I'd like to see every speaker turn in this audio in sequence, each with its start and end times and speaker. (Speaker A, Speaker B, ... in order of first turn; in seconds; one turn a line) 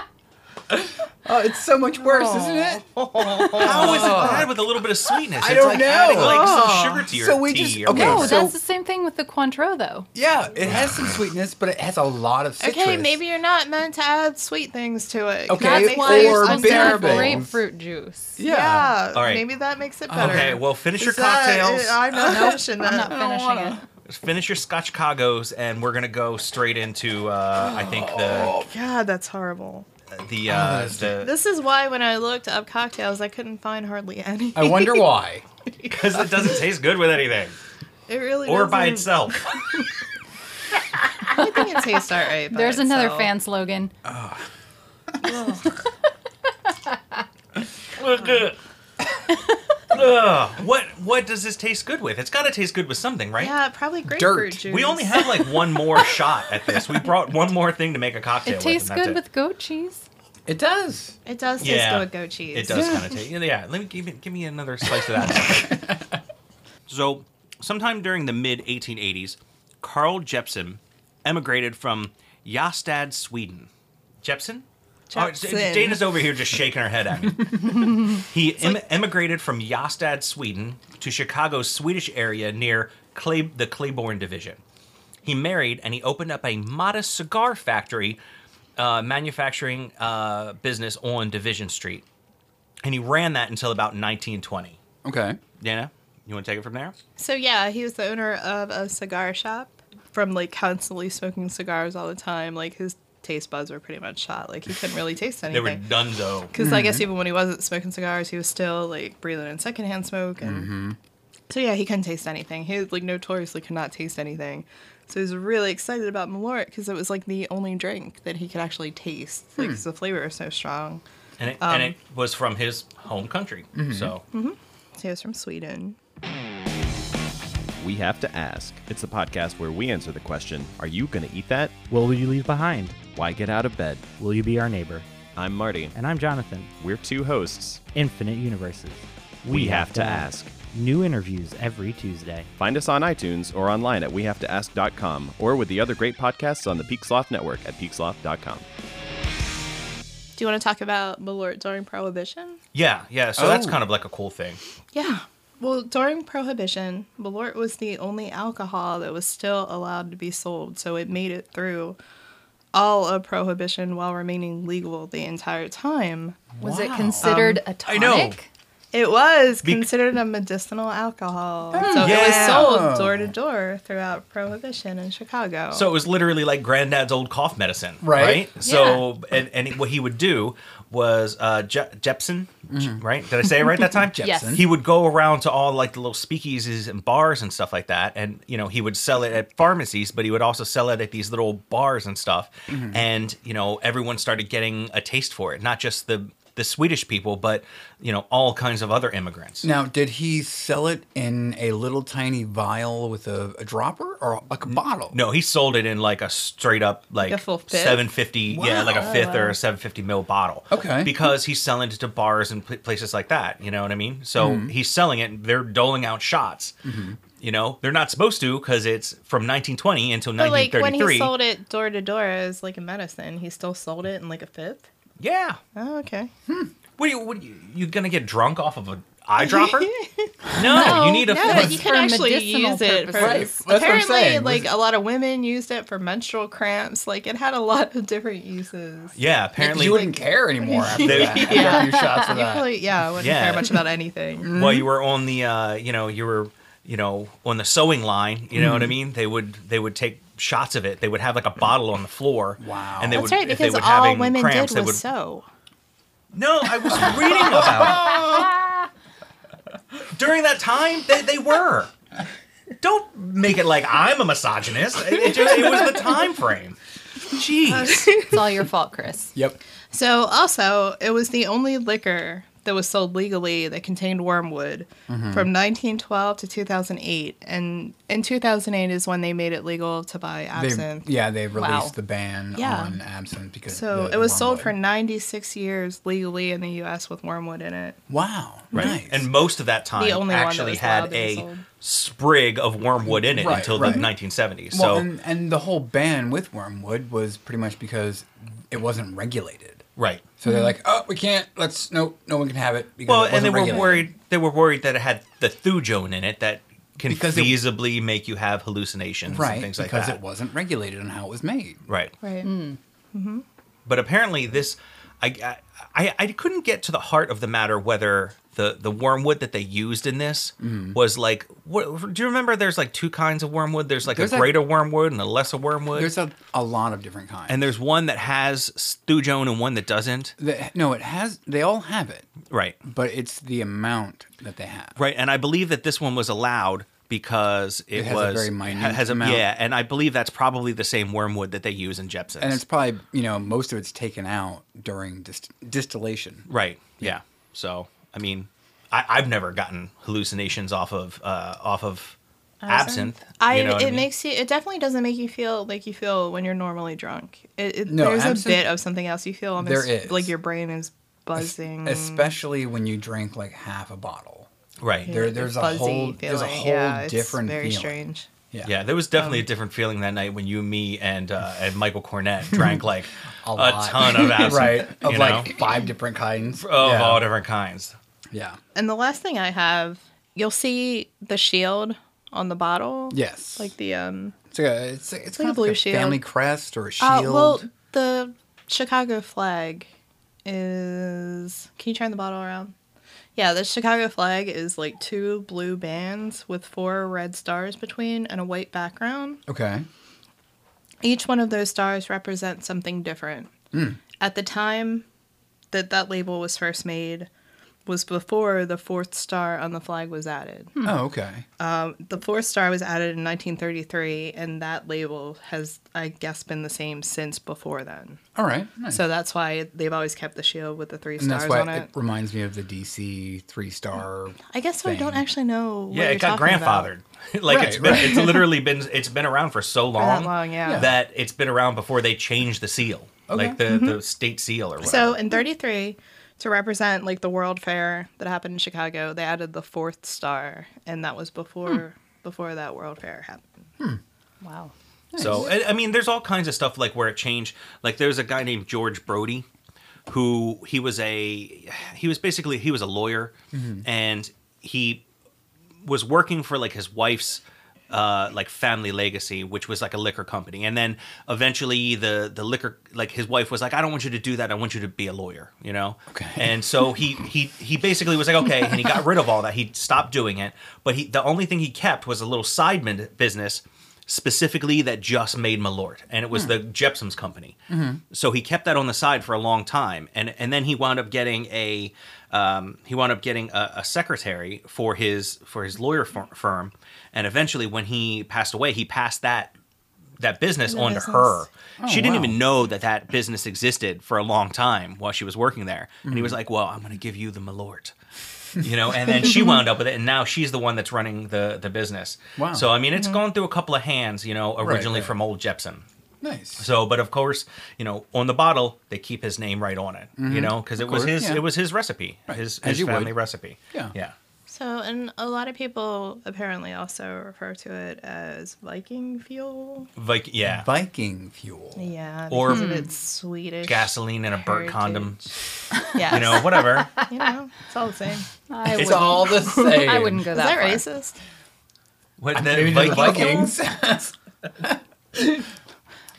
Speaker A: 1.2-4.5
Speaker B: 2.0-4.5
Speaker C: 3.6-8.4
Speaker A: 5.4-8.6
Speaker D: 7.9-10.1
Speaker A: 10.1-13.2
Speaker C: 10.7-11.1
Speaker B: 12.6-17.4
Speaker A: 15.5-17.6
Speaker D: 15.6-18.4
Speaker A: 18.4-19.0
Speaker B: 18.4-23.2
Speaker C: 19.1-19.4
Speaker A: 20.1-20.6
Speaker C: 20.2-22.0
Speaker D: 22.2-23.9
Speaker A: 22.3-23.8
Speaker C: 24.1-28.6
Speaker A: 27.6-28.7
Speaker B: 28.5-29.9
Speaker C: 30.1-31.3
Speaker A: 30.5-31.2
Speaker B: 31.2-35.1
Speaker A: 34.5-35.5
Speaker C: 35.9-37.6
Speaker B: 38.1-39.8
Speaker C: 38.5-39.5
Speaker B: 41.2-43.3
Speaker D: 41.4-41.8
Speaker D: 42.5-43.9
Speaker A: 44.0-44.5
Speaker B: 45.2-45.8
Speaker C: 48.0-48.6
Speaker C: 49.9-53.5
Speaker B: 53.4-55.3
Speaker A: 54.1-54.6
Speaker C: 54.7-59.2
Speaker D: 58.5-60.1
Speaker A: 60.5-61.2
Speaker B: 61.3-63.1
Speaker C: 61.6-65.9
Speaker A: 65.3-66.2
Speaker C: 66.9-73.7
Speaker C: 74.2-84.6
Speaker B: 75.1-76.1
Speaker C: 85.2-88.2
Speaker C: 88.8-92.0
Speaker C: 92.8-94.8
Speaker A: 95.0-95.4
Speaker C: 95.6-97.0
Speaker B: 97.2-105.8
Speaker C: 105.5-106.5
Speaker B: 106.5-110.7
Speaker A: 106.6-107.1
Speaker A: 110.4-111.0
Speaker B: 111.5-121.0
Speaker A: 119.6-119.8
Speaker C: 121.4-124.2
Speaker B: 121.6-122.0
Speaker A: 123.8-124.2
Speaker B: 124.3-126.0
Speaker E: 127.8-131.8
Speaker F: 131.9-133.1
Speaker E: 133.1-134.1
Speaker F: 134.1-135.1
Speaker E: 135.3-135.9
Speaker F: 135.9-136.7
Speaker E: 136.8-137.8
Speaker F: 137.9-142.5
Speaker E: 139.4-140.6
Speaker E: 142.6-148.7
Speaker B: 150.4-152.6
Speaker C: 152.7-154.6
Speaker A: 153.4-153.8
Speaker B: 154.9-162.0
Speaker B: 162.7-166.4
Speaker A: 166.6-167.5
Speaker D: 166.6-168.5
Speaker B: 167.2-167.6
Speaker C: 167.8-168.4
Speaker B: 168.9-175.9
Speaker A: 171.7-173.3
Speaker C: 171.9-172.7
Speaker C: 175.7-199.7
Speaker A: 178.0-178.5
Speaker D: 178.6-179.1
Speaker A: 182.7-183.0
Speaker A: 183.7-184.7
Speaker D: 184.2-184.6
Speaker A: 192.7-193.0
Speaker A: 199.6-205.2
Speaker C: 205.1-216.7
Speaker B: 207.2-208.1
Speaker A: 208.5-209.3
Speaker B: 208.7-209.6
Speaker A: 210.7-211.2
Speaker A: 214.4-214.7
Speaker A: 216.8-217.2
Speaker C: 217.4-221.3
Speaker B: 220.4-224.9
Speaker C: 225.2-225.6
Speaker B: 225.8-226.3
Speaker A: 226.5-226.7
Speaker C: 227.0-229.9
Speaker B: 229.4-230.3
Speaker C: 230.5-231.8
Speaker D: 230.6-233.6
Speaker B: 230.9-244.5
Speaker A: 233.2-234.7
Speaker C: 239.2-240.1
Speaker A: 239.6-242.8
Speaker C: 241.0-241.9
Speaker D: 241.6-242.2
Speaker C: 243.2-243.8
Speaker A: 244.4-244.9
Speaker C: 244.5-255.0
Speaker A: 248.6-248.9
Speaker A: 252.6-253.4
Speaker B: 253.1-255.5
Speaker C: 256.3-258.5
Speaker A: 257.5-258.2
Speaker C: 260.1-261.9
Speaker C: 262.8-266.8
Speaker C: 267.3-268.1
Speaker B: 267.7-268.4
Speaker D: 268.2-269.3
Speaker B: 269.9-281.1
Speaker A: 275.1-275.5
Speaker A: 280.5-284.8
Speaker D: 281.6-281.9
Speaker B: 282.6-283.0
Speaker B: 283.7-288.0
Speaker A: 288.1-289.3
Speaker C: 288.7-295.1
Speaker B: 290.0-291.6
Speaker A: 293.1-294.1
Speaker A: 294.7-299.8
Speaker C: 300.0-300.2
Speaker A: 300.4-304.1
Speaker C: 303.1-310.2
Speaker A: 307.0-307.6
Speaker A: 309.3-311.8
Speaker C: 311.9-312.1
Speaker B: 312.2-312.5
Speaker D: 312.4-312.8
Speaker B: 313.1-313.4
Speaker C: 313.9-326.1
Speaker A: 320.6-321.0
Speaker A: 324.1-324.6
Speaker A: 325.9-327.7
Speaker C: 327.5-330.4
Speaker A: 330.4-332.3
Speaker C: 332.5-332.8
Speaker A: 332.8-335.0
Speaker C: 335.0-342.6
Speaker A: 337.9-339.5
Speaker A: 342.4-346.4
Speaker C: 346.5-354.1
Speaker D: 352.7-353.0
Speaker B: 353.4-362.3
Speaker A: 357.9-358.7
Speaker A: 359.6-360.3
Speaker A: 361.4-364.5
Speaker C: 364.8-365.1
Speaker A: 365.1-368.0
Speaker B: 365.1-368.3
Speaker C: 368.6-375.6
Speaker A: 372.5-372.8
Speaker A: 373.4-377.2
Speaker C: 376.6-377.9
Speaker A: 378.3-378.6
Speaker B: 378.8-384.4
Speaker A: 383.1-383.7
Speaker A: 384.5-387.7
Speaker B: 385.3-386.2
Speaker B: 387.0-389.9
Speaker B: 390.5-392.7
Speaker B: 393.4-399.4
Speaker A: 399.5-399.9
Speaker B: 401.0-403.5
Speaker A: 403.7-404.0
Speaker B: 404.2-405.1
Speaker B: 405.7-407.3
Speaker B: 407.9-410.8
Speaker A: 410.8-411.4
Speaker B: 411.6-418.2
Speaker A: 418.4-419.0
Speaker B: 418.9-421.9
Speaker A: 421.2-425.3
Speaker B: 424.5-426.9
Speaker C: 425.9-435.2
Speaker A: 427.5-428.5
Speaker B: 430.0-430.9
Speaker A: 430.7-430.9
Speaker A: 433.3-433.6
Speaker B: 433.4-434.0
Speaker B: 434.8-443.6
Speaker D: 444.4-444.7
Speaker A: 445.1-445.5
Speaker C: 445.2-449.5
Speaker C: 450.1-455.0
Speaker A: 453.5-453.9
Speaker C: 455.8-477.6
Speaker A: 466.1-466.9
Speaker A: 477.7-478.0
Speaker C: 478.1-489.5
Speaker C: 490.2-497.9
Speaker B: 490.7-491.5
Speaker A: 491.8-492.4
Speaker A: 496.1-496.4
Speaker C: 498.6-505.8
Speaker A: 502.4-502.7
Speaker A: 504.6-505.1
Speaker A: 506.2-506.7
Speaker C: 506.6-514.1
Speaker A: 510.2-511.4
Speaker A: 512.3-513.2
Speaker B: 514.5-519.9
Speaker C: 520.0-520.7
Speaker A: 520.4-521.9
Speaker B: 521.8-525.3
Speaker C: 522.3-522.7
Speaker D: 522.5-522.9
Speaker C: 523.6-525.3
Speaker B: 525.9-528.3
Speaker C: 526.1-526.9
Speaker D: 528.5-530.8
Speaker A: 528.7-530.3
Speaker C: 528.8-529.0
Speaker B: 530.3-531.2
Speaker C: 532.2-533.5
Speaker A: 532.3-535.5